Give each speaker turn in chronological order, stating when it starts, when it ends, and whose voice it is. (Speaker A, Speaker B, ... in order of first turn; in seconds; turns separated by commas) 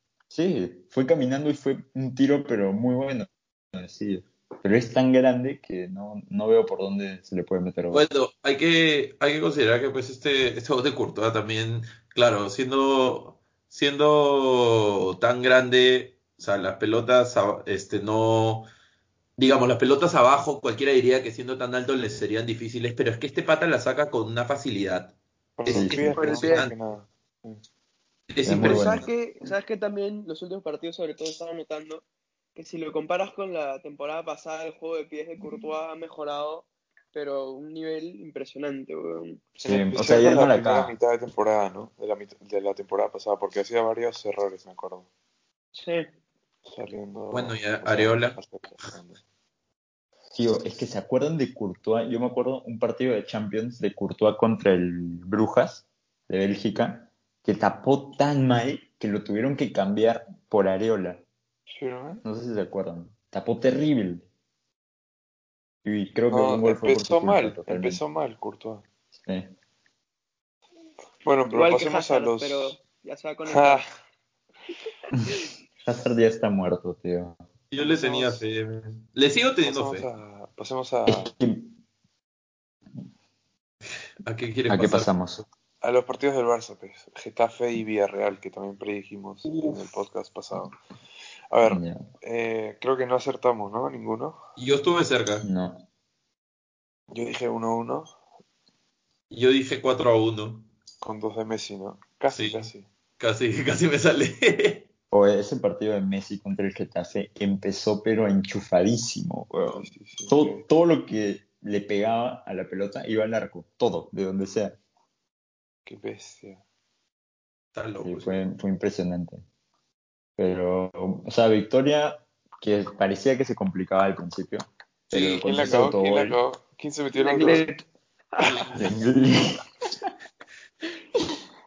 Speaker A: 0.3-8.1, Speaker B: 7.9-18.7, Speaker B: 19.4-26.8, Speaker C: 25.6-27.6, Speaker A: 25.7-26.1, Speaker D: 26.2-26.7, Speaker B: 28.3-29.0, Speaker A: 28.4-29.1, Speaker D: 28.5-32.0, Speaker D: 32.5-39.5, Speaker C: 39.6-45.1, Speaker A: 39.6-41.0, Speaker D: 45.7-46.1, Speaker C: 46.7-49.2, Speaker B: 47.3-48.9, Speaker A: 50.3-61.2, Speaker C: 61.7-62.2, Speaker A: 62.2-64.2, Speaker A: 65.8-68.0, Speaker C: 66.3-68.8, Speaker A: 69.1-69.5, Speaker C: 71.2-72.8, Speaker D: 71.5-73.8, Speaker C: 73.5-73.8, Speaker A: 75.8-77.4, Speaker B: 77.7-80.1, Speaker C: 77.8-78.4, Speaker C: 79.6-81.3, Speaker A: 81.1-81.8, Speaker B: 84.2-85.1, Speaker A: 84.7-85.4, Speaker C: 85.8-90.8, Speaker B: 89.5-89.8, Speaker C: 91.5-94.4, Speaker A: 91.6-92.0, Speaker B: 94.6-95.5, Speaker A: 95.4-95.8, Speaker C: 97.1-98.1, Speaker B: 99.3-100.7, Speaker C: 101.0-102.8, Speaker B: 102.3-104.9, Speaker A: 105.1-114.8, Speaker C: 109.7-110.6, Speaker C: 115.8-116.6, Speaker B: 117.7-118.4, Speaker A: 118.0-119.4, Speaker A: 120.4-126.4, Speaker C: 125.1-127.7, Speaker D: 127.1-127.8, Speaker D: 128.3-128.7, Speaker B: 128.4-128.9, Speaker A: 128.7-130.1